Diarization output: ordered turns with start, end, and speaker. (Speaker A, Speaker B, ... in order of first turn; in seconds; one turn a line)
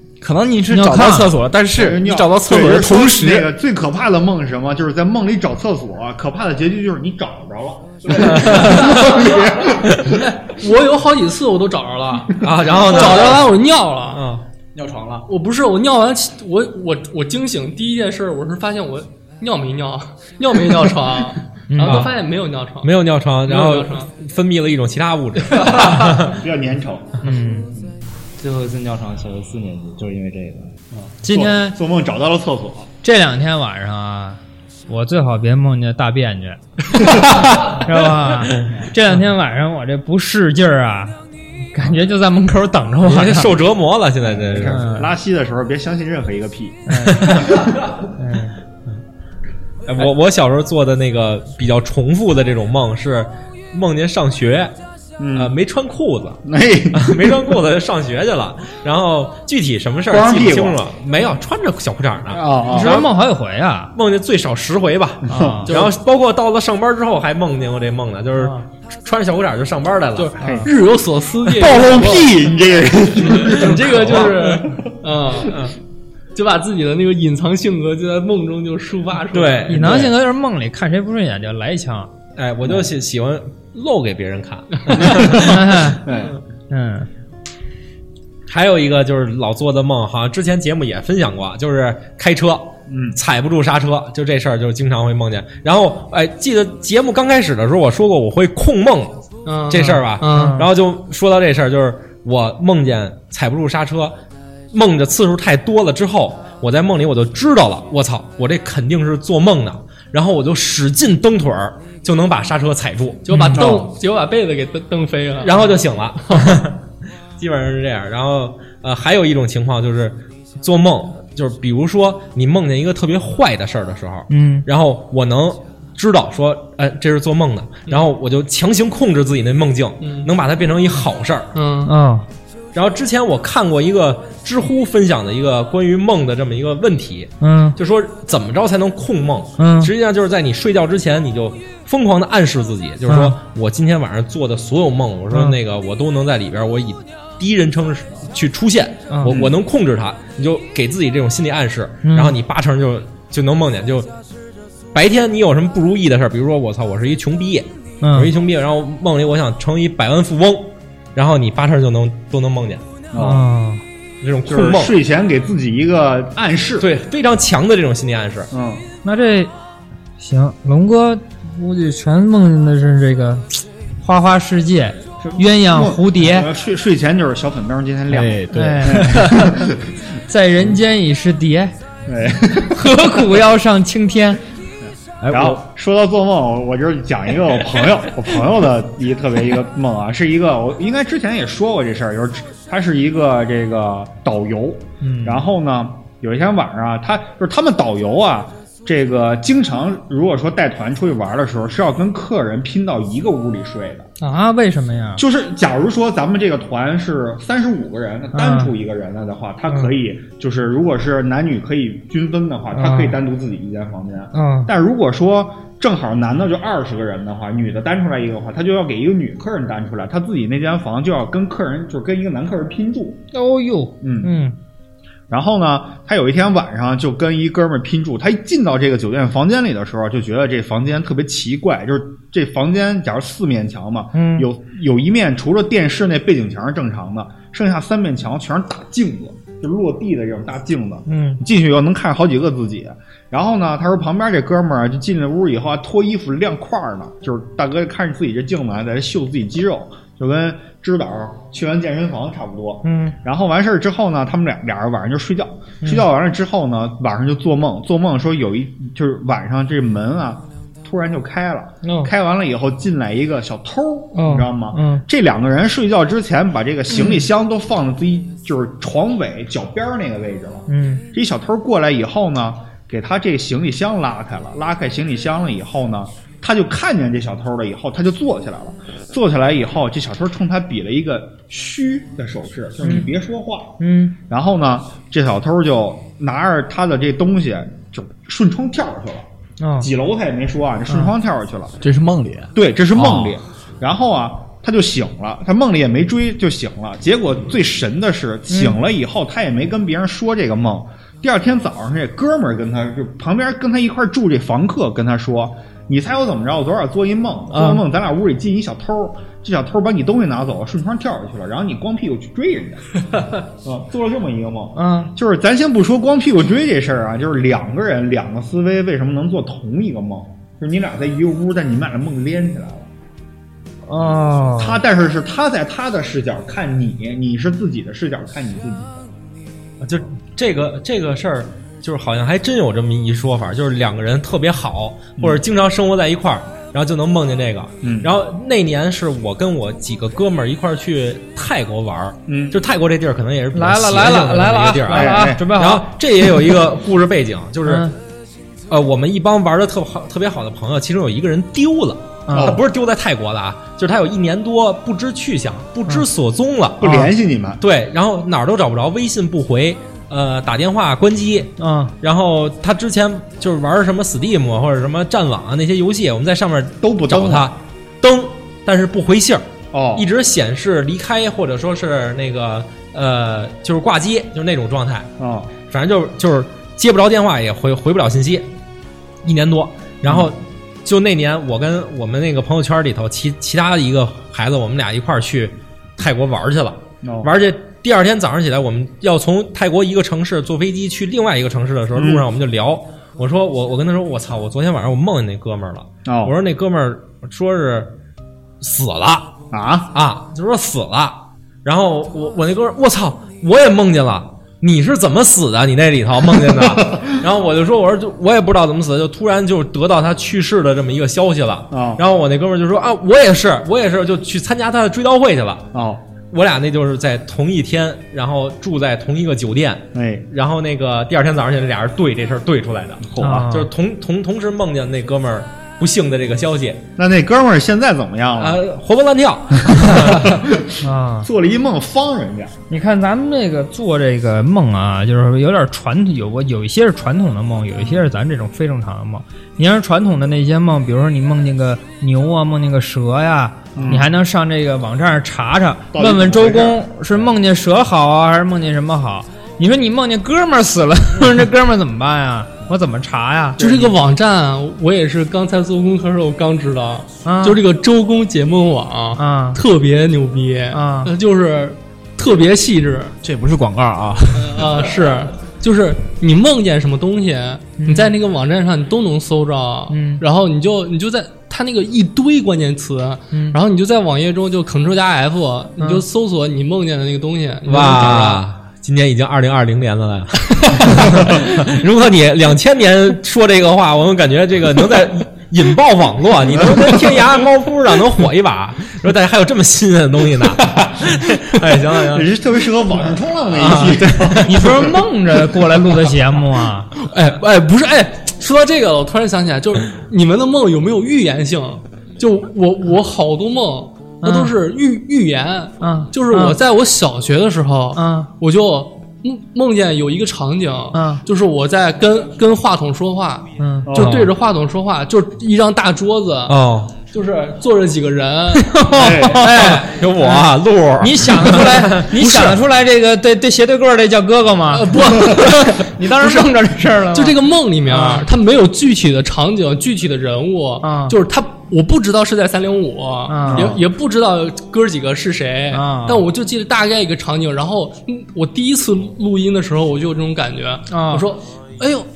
Speaker A: 0.2-3.5
Speaker B: 0.7-1.3
Speaker C: 1.7-10.2
Speaker D: 8.3-14.2
Speaker E: 12.4-13.5
Speaker E: 14.1-14.4
Speaker A: 14.8-15.2
Speaker D: 15.3-22.9
Speaker B: 21.7-22.1
Speaker E: 21.8-22.1
Speaker E: 22.8-26.4
Speaker D: 23.4-24.1
Speaker D: 25.5-26.0
Speaker C: 25.7-27.2
Speaker B: 27.2-27.7
Speaker F: 28.4-30.7
Speaker C: 30.9-32.9
Speaker B: 31.2-31.8
Speaker B: 33.0-41.2
Speaker C: 38.6-38.9
Speaker B: 41.7-43.6
Speaker E: 43.0-44.9
Speaker C: 44.2-48.0
Speaker B: 44.6-45.2
Speaker B: 46.9-47.6
Speaker E: 47.2-47.5
Speaker B: 48.1-48.6
Speaker E: 49.9-54.8
Speaker C: 55.2-55.6
Speaker E: 55.4-63.1
Speaker C: 56.5-57.5
Speaker C: 60.1-60.8
Speaker C: 62.3-62.9
Speaker B: 62.7-63.9
Speaker E: 64.0-70.3
Speaker C: 65.3-65.7
Speaker B: 65.3-65.7
Speaker D: 70.2-72.5
Speaker C: 70.4-70.7
Speaker B: 70.4-70.7
Speaker C: 71.5-74.9
Speaker D: 73.2-75.6
Speaker E: 73.5-74.3
Speaker E: 75.5-75.7
Speaker D: 76.3-79.7
Speaker E: 79.3-80.1
Speaker B: 79.7-82.1
Speaker E: 82.4-86.0
Speaker C: 85.0-86.4
Speaker B: 85.3-86.1
Speaker B: 86.7-87.1
Speaker E: 88.5-104.2
Speaker C: 92.9-93.2
Speaker D: 99.5-100.6
Speaker B: 99.9-100.7
Speaker E: 104.7-113.3
Speaker D: 113.3-116.6
Speaker B: 113.3-113.6
Speaker C: 113.6-113.9
Speaker E: 115.4-116.8
Speaker E: 117.4-131.5
Speaker B: 124.3-124.7
Speaker D: 130.0-130.3
Speaker D: 131.5-131.9
Speaker B: 131.9-132.3
Speaker E: 132.7-154.1
Speaker B: 137.4-137.8
Speaker B: 139.6-139.9
Speaker B: 143.1-143.4
Speaker B: 145.3-145.6
Speaker B: 149.1-149.4
Speaker C: 149.3-149.5
Speaker B: 152.0-152.4
Speaker E: 154.9-162.8
Speaker B: 158.0-158.3
Speaker C: 163.1-163.4
Speaker B: 163.2-163.8
Speaker E: 164.2-165.0
Speaker C: 164.5-166.9
Speaker E: 166.8-168.5
Speaker C: 168.5-168.8
Speaker B: 169.0-169.5
Speaker B: 170.2-176.5
Speaker C: 175.2-179.8
Speaker A: 178.1-179.5
Speaker B: 178.2-179.7
Speaker B: 180.3-181.7
Speaker C: 182.1-183.0
Speaker B: 182.7-184.4
Speaker B: 185.3-185.6
Speaker C: 185.3-204.1
Speaker B: 195.0-195.5
Speaker B: 204.2-205.2
Speaker C: 205.2-223.2
Speaker B: 208.3-208.8
Speaker B: 209.7-209.9
Speaker B: 212.7-213.2
Speaker B: 214.3-214.7
Speaker B: 223.3-224.6
Speaker C: 224.0-224.3
Speaker C: 225.3-289.3
Speaker B: 234.1-234.5
Speaker B: 241.1-241.4
Speaker B: 252.8-253.2
Speaker B: 255.8-256.1
Speaker B: 261.8-262.1
Speaker B: 264.1-265.1
Speaker B: 266.9-267.3
Speaker B: 270.7-271.1
Speaker B: 282.8-283.1
Speaker B: 283.8-284.2
Speaker B: 289.6-289.9
Speaker C: 289.8-291.8
Speaker B: 290.9-291.1
Speaker A: 291.8-293.2
Speaker C: 292.5-322.9
Speaker B: 298.5-298.8
Speaker B: 307.5-307.9
Speaker B: 314.8-315.1
Speaker B: 323.9-324.8
Speaker C: 324.6-329.0
Speaker E: 329.8-347.9
Speaker C: 337.8-338.1
Speaker C: 342.3-342.6
Speaker B: 343.5-346.2
Speaker C: 344.9-345.4
Speaker B: 347.6-348.0
Speaker E: 348.7-357.0
Speaker B: 352.3-352.6
Speaker C: 352.3-352.6
Speaker C: 356.8-357.6
Speaker B: 356.8-357.1
Speaker E: 357.6-375.1
Speaker B: 361.6-361.9
Speaker C: 366.8-367.5
Speaker C: 369.7-370.1
Speaker C: 375.2-375.5
Speaker E: 375.6-378.5
Speaker E: 379.2-397.9
Speaker C: 380.1-380.3
Speaker C: 387.0-387.3
Speaker C: 391.9-392.2
Speaker C: 396.1-396.3
Speaker E: 398.6-399.4
Speaker C: 399.5-399.9
Speaker E: 399.9-415.7
Speaker C: 411.7-412.0
Speaker C: 415.7-416.0
Speaker E: 416.3-426.9
Speaker C: 419.9-420.3
Speaker C: 423.0-423.5
Speaker B: 423.2-423.7
Speaker C: 427.0-428.6
Speaker E: 428.4-430.4
Speaker C: 429.7-432.6
Speaker B: 430.8-431.3
Speaker B: 432.7-453.6
Speaker C: 437.8-438.0
Speaker C: 443.8-444.1
Speaker C: 445.9-447.3
Speaker C: 453.6-453.9
Speaker D: 453.6-463.2
Speaker B: 457.2-457.6
Speaker B: 459.2-459.6
Speaker B: 460.7-461.1
Speaker A: 463.2-464.9
Speaker D: 464.3-478.4
Speaker B: 467.8-468.1
Speaker B: 469.9-470.2
Speaker B: 473.3-473.6
Speaker B: 475.8-476.0
Speaker E: 477.7-492.3
Speaker C: 492.0-494.9
Speaker E: 493.5-494.8
Speaker B: 494.4-496.9
Speaker D: 497.0-519.0
Speaker B: 504.2-504.6
Speaker B: 505.8-506.6
Speaker B: 507.9-508.3
Speaker B: 510.9-511.2
Speaker B: 513.6-514.2
Speaker C: 513.9-514.3
Speaker E: 516.5-516.9
Speaker E: 518.8-522.4
Speaker C: 518.9-519.5
Speaker B: 519.2-528.3
Speaker D: 522.2-522.5
Speaker D: 524.7-526.5
Speaker D: 527.1-542.1
Speaker B: 530.8-531.2
Speaker B: 533.3-533.8
Speaker C: 533.5-533.8
Speaker B: 535.7-536.3
Speaker B: 540.9-541.3